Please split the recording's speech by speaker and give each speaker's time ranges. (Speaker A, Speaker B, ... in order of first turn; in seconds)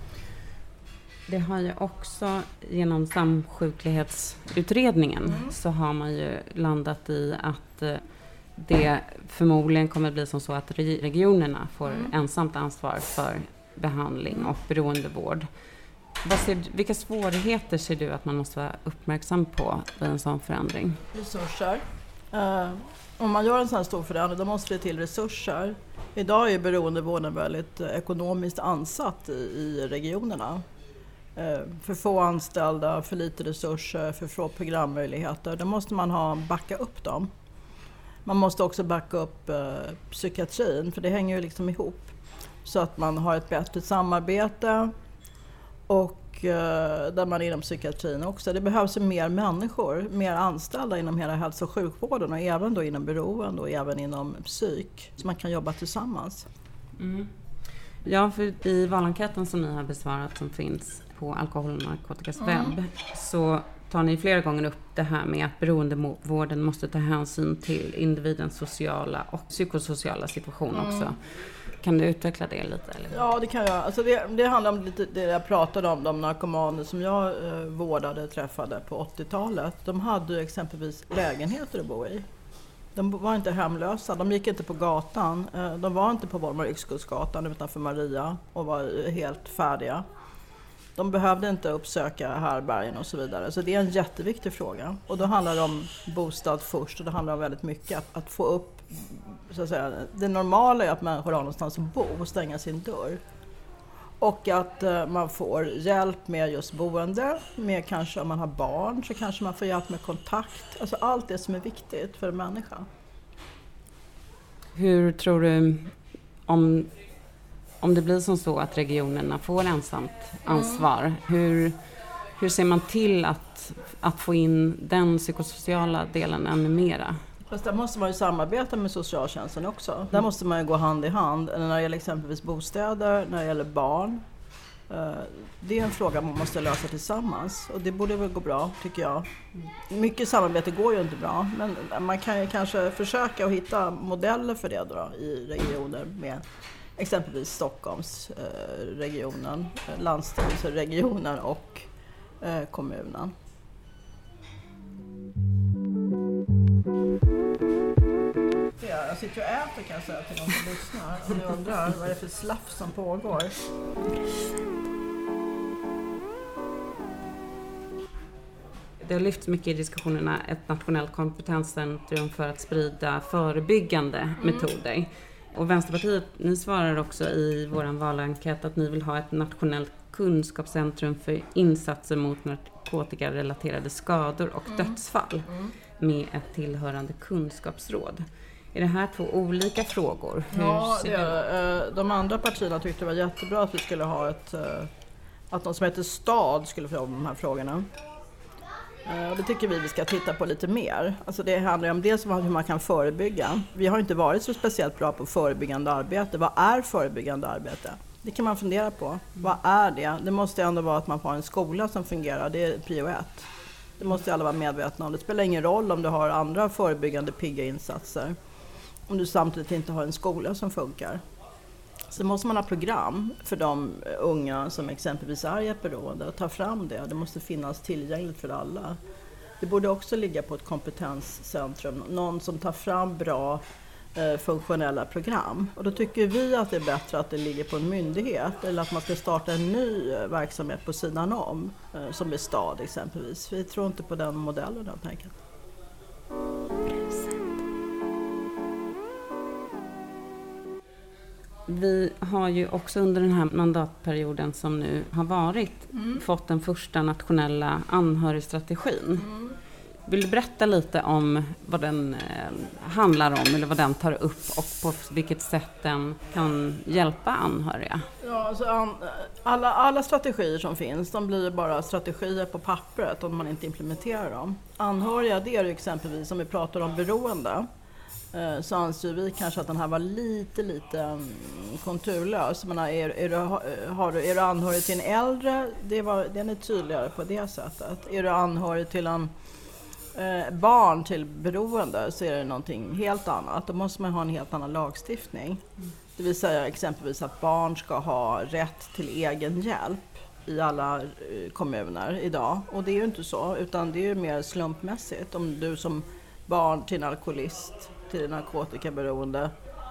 Speaker A: 1.3-8.0, 8.6-15.5, 16.2-21.0, 57.0-57.3, 58.0-71.2, 71.8-73.2, 114.8-115.9, 116.5-116.9, 117.8-121.8, 122.4-127.2, 169.0-191.3, 251.7-259.3, 260.1-268.1
Speaker B: 11.9-12.1, 21.1-30.6, 31.4-37.3, 38.2-42.1, 42.6-44.9, 45.9-56.5, 62.4-62.8, 70.7-71.1, 73.1-82.2, 82.9-90.0, 91.0-103.2, 104.2-112.9, 120.5-120.8, 127.5-134.2, 134.9-139.3, 139.9-146.4, 147.0-151.9, 152.4-153.3, 158.8-163.6, 184.7-184.9, 190.5-194.9, 195.5-197.9, 199.1-218.4, 219.1-221.2, 222.1-229.0, 229.6-233.6, 234.1-245.4, 255.9-256.2, 259.2-259.6, 268.2-277.6, 278.3-289.3, 290.1-295.6, 296.1-309.5